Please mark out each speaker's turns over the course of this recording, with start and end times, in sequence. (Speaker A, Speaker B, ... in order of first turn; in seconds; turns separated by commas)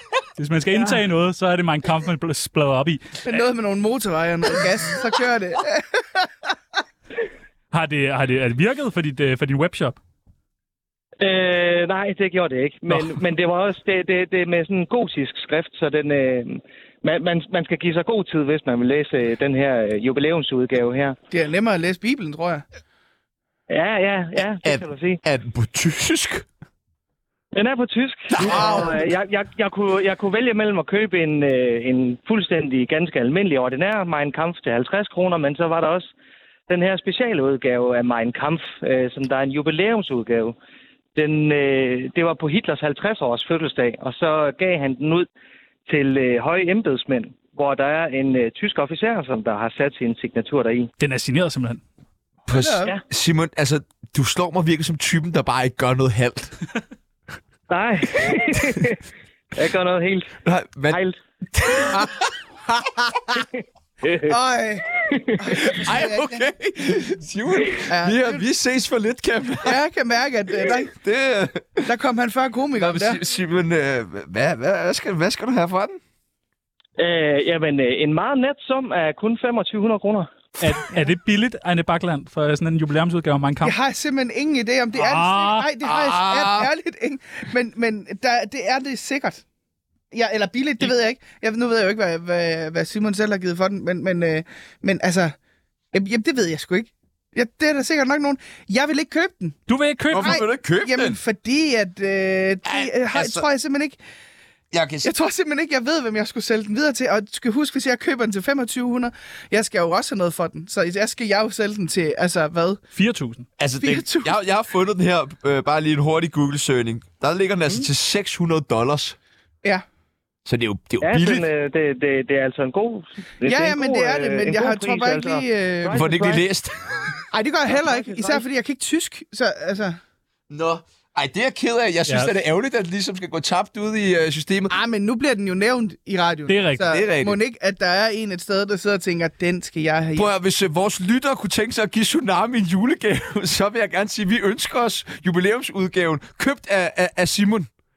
Speaker A: 0.4-3.4, Speaker B: 3.3-6.5, Speaker A: 7.7-10.0, Speaker C: 11.2-21.2, Speaker A: 12.9-13.3, Speaker B: 21.3-22.6, Speaker C: 23.7-25.2, Speaker D: 24.4-26.5, Speaker C: 27.5-36.1, Speaker D: 28.3-29.1, Speaker B: 28.4-29.0, Speaker C: 36.7-40.6, Speaker C: 41.1-45.3, Speaker C: 45.9-50.9, Speaker A: 51.0-51.8, Speaker D: 52.5-56.6, Speaker B: 52.6-53.0, Speaker C: 57.7-59.0, Speaker C: 59.5-60.3, Speaker D: 60.4-61.0, Speaker D: 61.5-62.3, Speaker B: 61.9-63.3, Speaker C: 64.0-64.3, Speaker B: 64.3-66.5, Speaker D: 65.7-69.8, Speaker B: 67.9-68.4, Speaker B: 69.6-70.9, Speaker D: 70.5-71.8, Speaker B: 71.8-73.2, Speaker D: 72.8-76.0, Speaker C: 77.0-80.3, Speaker A: 80.6-83.8, Speaker B: 83.6-89.4, Speaker A: 85.0-85.7, Speaker D: 85.8-86.7, Speaker B: 90.1-95.3, Speaker B: 95.9-99.6, Speaker A: 99.7-100.4, Speaker D: 100.1-101.2, Speaker B: 100.2-104.0, Speaker D: 102.7-103.5, Speaker D: 104.7-105.1, Speaker B: 105.0-112.8, Speaker A: 113.0-113.5, Speaker D: 113.6-119.2, Speaker B: 113.8-114.3, Speaker D: 120.5-121.5, Speaker C: 121.0-126.5, Speaker B: 123.5-126.1, Speaker D: 125.9-127.2, Speaker B: 127.3-130.0, Speaker C: 127.7-128.5, Speaker D: 130.5-134.7, Speaker A: 132.1-132.3, Speaker B: 134.7-140.3, Speaker A: 136.5-136.9, Speaker D: 136.8-137.4, Speaker D: 140.2-147.7